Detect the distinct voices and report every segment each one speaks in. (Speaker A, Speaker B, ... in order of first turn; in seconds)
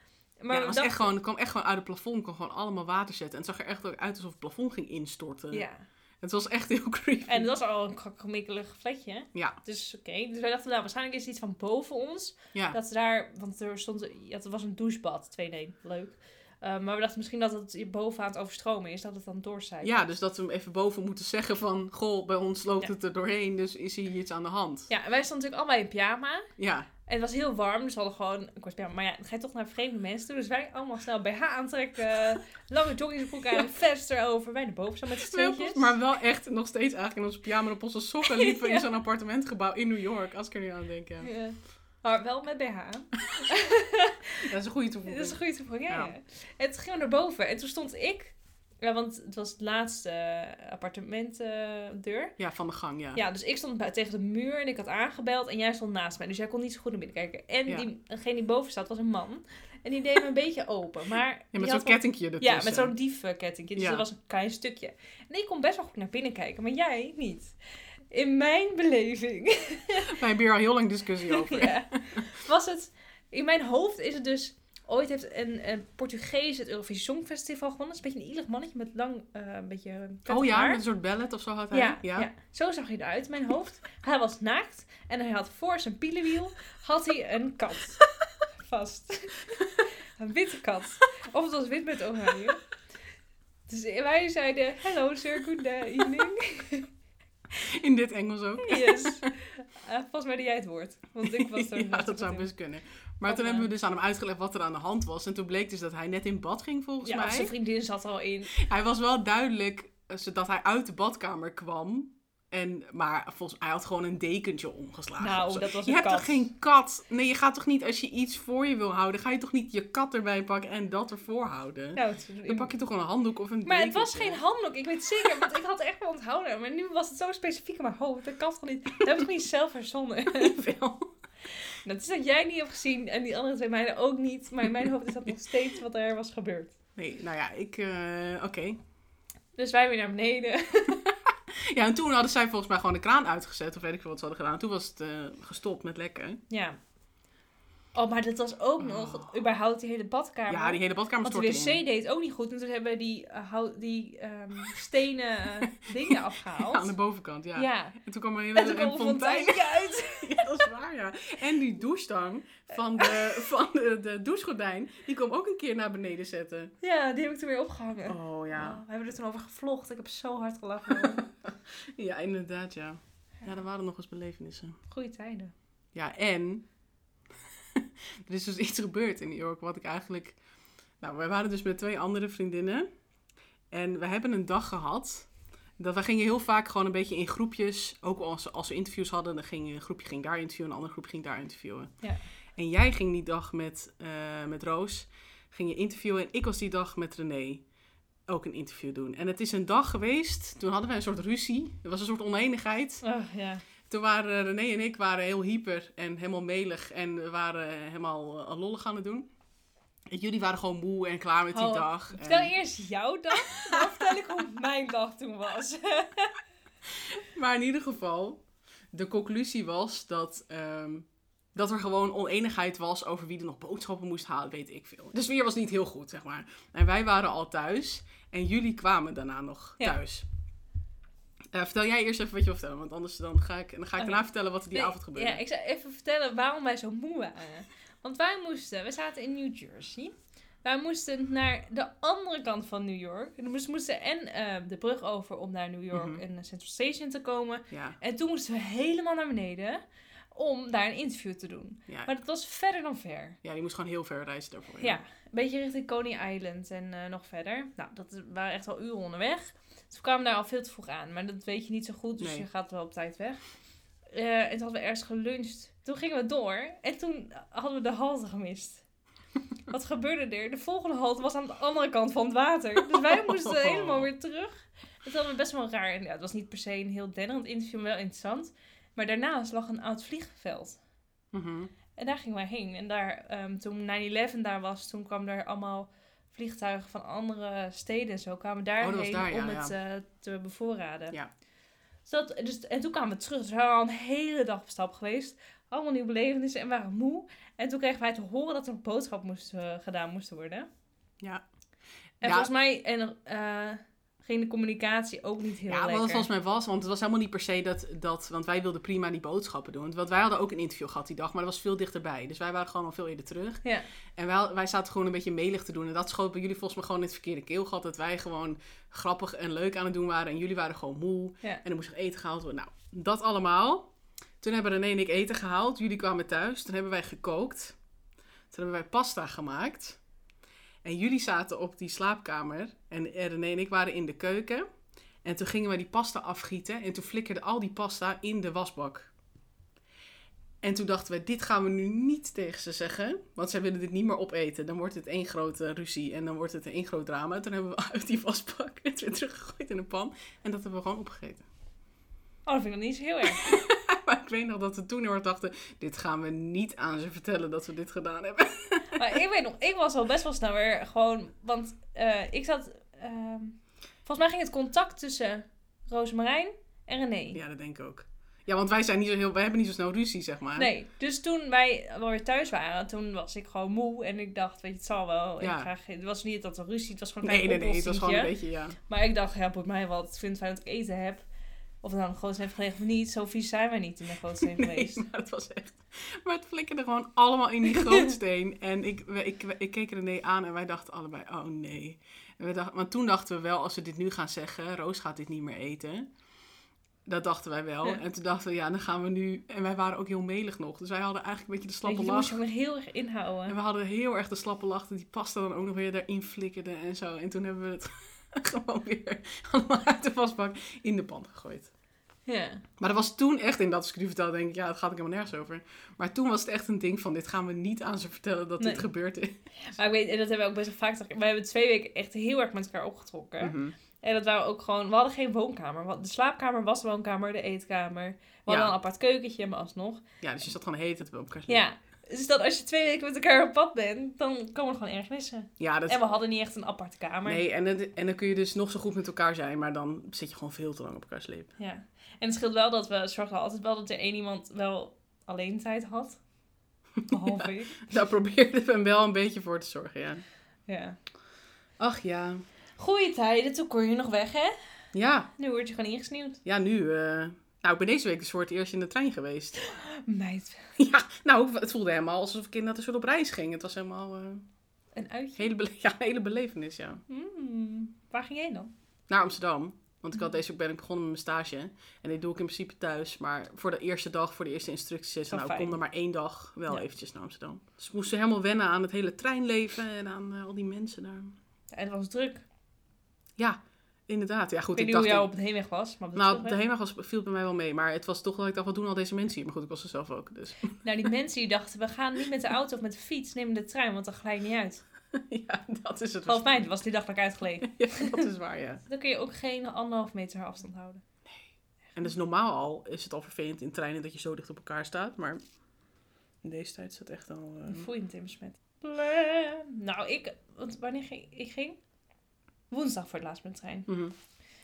Speaker A: 0.4-1.1, 5.5-5.8, 7.3-20.0, 24.9-26.5, 27.1-35.9, 38.2-38.9, 41.2-44.4, 45.1-52.4, 53.1-67.5, 68.1-70.2, 71.3-80.8, 81.7-88.0, 88.6-92.6, 93.7-96.9, 98.6-102.5, 103.2-103.7, 107.0-108.5, 115.2-116.5, 122.0-122.7, 123.7-130.6, 131.6-136.8, 139.6-141.1, 146.5-146.8, 147.9-156.9, 157.6-158.0, 158.5-160.6, 166.8-171.3, 174.9-175.5, 203.0-203.7, 211.5-216.3, 234.0-253.4, 254.8-263.4, 264.1-268.8, 269.7-280.8, 281.9-291.2, 292.1-300.7, 302.2-306.3, 352.5-353.5, 358.9-367.4, 370.6-378.3, 378.9-381.2, 381.8-385.0, 401.9-403.6, 412.3-412.6, 418.6-418.9, 419.6-430.0, 431.5-437.4, 441.6-446.2, 447.1-447.9, 450.7-451.0, 452.8-454.5, 455.4-456.4, 459.6-460.7, 464.9-465.5, 467.1-468.7, 475.3-475.8, 481.7-482.4, 484.8-486.6, 490.8-494.8, 496.2-498.2, 498.9-501.0, 507.7-511.8, 512.7-513.9
Speaker B: 0.5-5.7, 6.2-7.5, 19.8-24.9, 26.6-26.9, 35.1-41.3, 44.5-46.1, 52.4-53.2, 61.5-62.9, 63.8-64.0, 70.0-72.3, 80.3-82.3, 97.6-99.3, 101.2-107.5, 108.5-124.4, 130.3-131.1, 137.0-138.8, 141.5-146.4, 148.8-149.3, 150.5-151.8, 155.9-166.7, 168.1-168.8, 171.0-174.8, 175.9-176.7, 177.7-180.4, 181.0-182.9, 183.7-191.9, 192.6-197.6, 198.3-203.0, 203.9-209.3, 210.1-212.5, 213.5-214.2, 217.0-230.2, 231.5-235.4, 245.9-246.2, 247.7-248.0, 253.4-255.0, 262.2-262.5, 272.9-274.1, 281.3-281.7, 288.8-289.8, 302.2-302.5, 305.7-313.6, 314.2-323.9, 324.4-327.8, 328.5-330.0, 330.8-334.7, 335.2-339.1, 340.6-351.4, 353.4-359.2, 367.3-370.7, 375.4-375.7, 377.2-378.8, 384.4-396.1, 397.1-402.4, 403.5-411.7, 412.8-419.4, 423.4-423.8, 428.5-428.7, 430.2-431.6, 435.6-436.0, 437.2-441.5, 447.0-450.2, 451.8-452.4, 454.9-455.3, 456.4-459.6, 460.8-464.4, 465.4-467.0, 469.1-481.4, 483.4-485.3, 486.1-490.8, 495.1-496.7, 497.6-498.8, 501.9-505.4, 506.4-507.9, 513.9-514.1